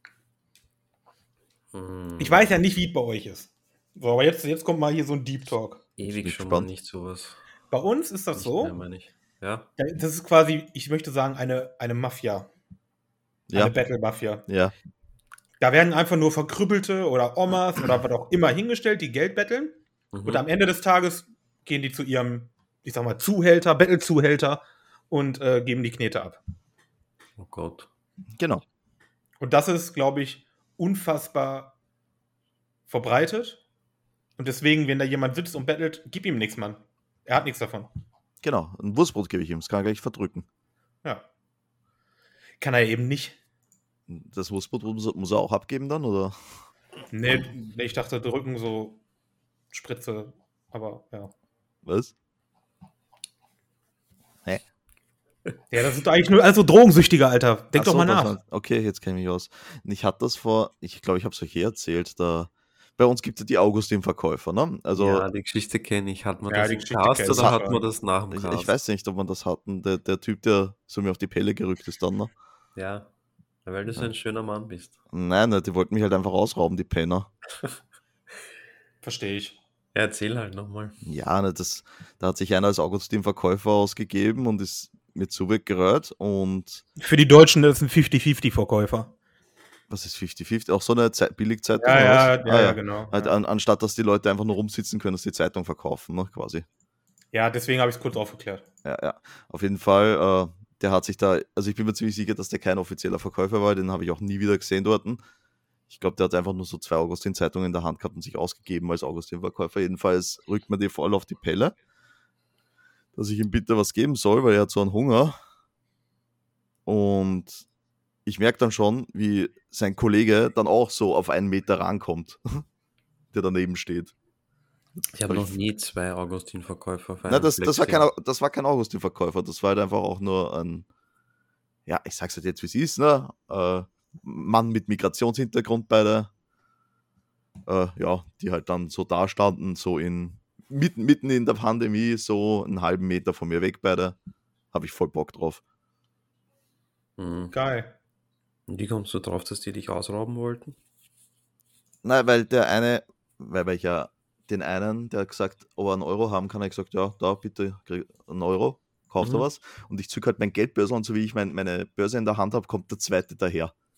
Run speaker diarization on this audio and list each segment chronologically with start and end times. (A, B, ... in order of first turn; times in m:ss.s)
0:01.7-0:02.5 A
0:02.2-0:05.8 B
0:06.0-0:07.4 A
0:06.1-0:06.7 C
0:07.7-0:08.8 B
0:08.4-0:09.7 A
0:09.8-0:12.5 B
0:13.5-0:13.8 C
0:13.5-0:14.4 B
0:14.5-0:14.7 C
0:15.6-0:26.4 B
0:20.1-0:20.4 A
0:27.4-0:27.9 A
0:28.4-0:28.6 C
0:29.4-0:31.7 B
0:32.9-0:33.6 B
0:34.4-0:37.9 B
0:38.4-0:40.4 C
0:42.6-0:43.4 B
0:44.1-0:46.4 C
0:47.1-0:49.0 B
0:49.7-0:51.3 B
0:51.8-0:52.1 C
0:55.7-0:58.4 B
0:57.8-1:05.3 C
1:05.0-1:08.7 A
1:06.5-1:07.8 B
1:07.3-1:07.6 C
1:08.3-1:12.3 C
1:12.8-1:13.1 A
1:13.6-1:15.0 A
1:15.1-1:17.3 C
1:19.0-1:19.6 B
1:19.9-1:21.0 A
1:21.0-1:26.8 C
1:27.0-1:29.1 B
1:29.9-1:36.6 C
1:31.8-1:33.3 B
1:37.3-1:38.6 B
1:38.8-1:45.2 C
1:45.9-1:51.8 C
1:53.2-1:55.4 C
1:56.9-1:57.6 C
1:58.3-2:02.6 C
2:03.3-2:04.1 C
2:05.1-2:08.1 A
2:05.3-2:05.6 C
2:07.3-2:10.9 C
2:11.9-2:16.3 C
2:17.7-2:24.2 C
2:24.7-2:25.6 C
2:27.2-2:27.6 A
2:27.5-2:27.9 B
2:28.7-2:30.8 A
2:32.0-2:43.7 C
2:39.2-2:39.5 A